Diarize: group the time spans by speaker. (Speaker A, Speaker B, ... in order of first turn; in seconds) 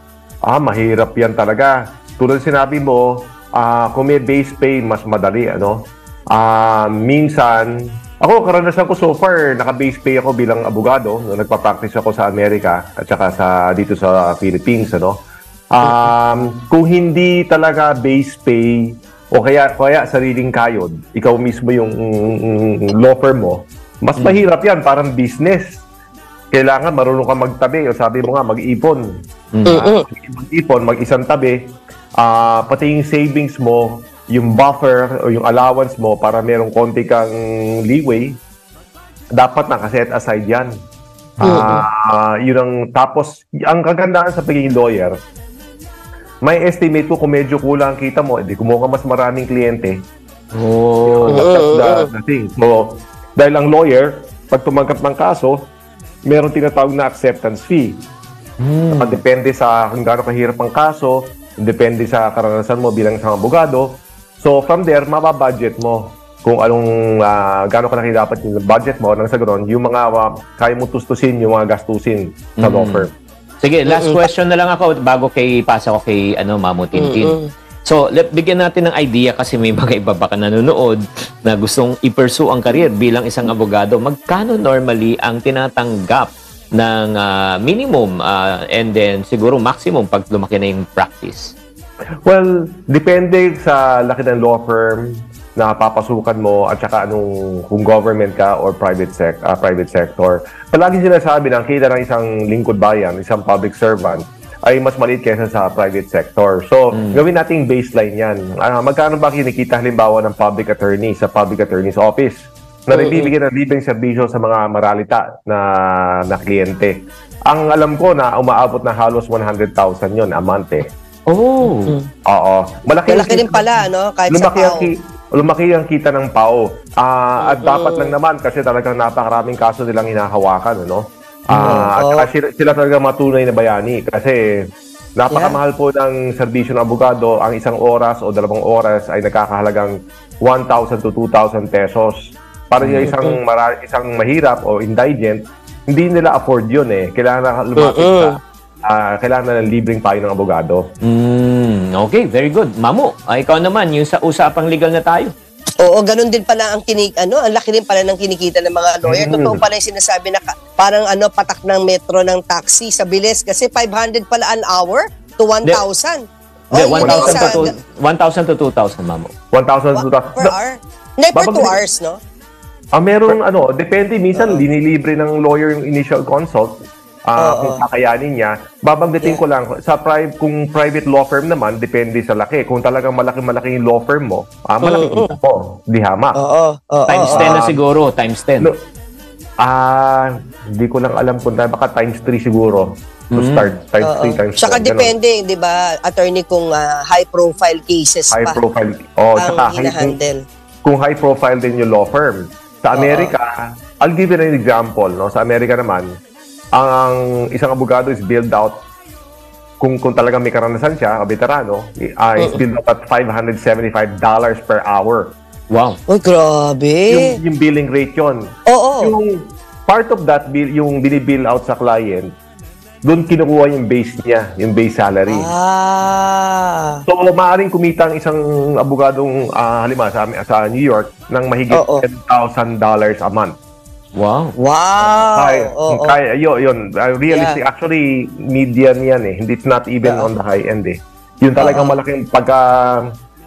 Speaker A: 0.5-5.8, 6.3-15.2, 15.7-18.8, 19.4-25.8, 26.5-29.0, 29.7-31.6, 32.2-37.3, 37.9-38.4, 39.4-40.7, 41.4-45.1, 46.4-50.0, 51.1-55.7, 56.3-58.0, 58.9-73.1, 92.3-115.7, 116.3-116.9, 117.5-120.9, 122.3-123.7, 124.3-134.4, 135.2-139.9, 140.4-150.8, 159.0-159.7, 167.0-167.6, 169.5-170.5, 171.3-171.8, 173.0-186.4, 187.2-187.8, 189.6-195.1, 198.3-200.2, 200.8-206.1, 206.8-208.8, 209.8-215.3, 217.1-218.4, 219.0-219.3, 219.9-222.3, 223.0-225.5, 227.1-233.5, 235.0-243.1
Speaker B: 24.2-24.4, 29.5-29.9, 50.5-51.4, 58.6-59.2, 72.6-73.1, 73.6-91.6, 106.9-107.2, 121.3-122.0, 131.5-131.9, 142.8-143.1, 151.0-155.3, 166.7-169.3, 187.1-188.7, 193.3-193.7, 215.7-216.0, 234.2-234.5
Speaker C: 29.7-30.1, 41.4-41.8, 51.3-52.1, 73.9-74.3, 77.0-77.5, 112.9-113.3, 121.7-122.1, 123.1-124.9, 127.4-128.2, 131.6-132.3, 135.3-135.6, 143.0-143.4, 147.8-148.4, 155.8-167.7, 170.0-172.2, 174.3-174.7, 177.4-177.8, 184.8-185.4, 186.4-187.6, 194.0-198.6, 199.4-200.4, 202.9-203.3, 216.1-217.3, 218.7-219.1, 225.3-227.0, 231.7-232.0, 234.6-236.2, 237.3-237.6, 240.1-240.3, 241.6-242.0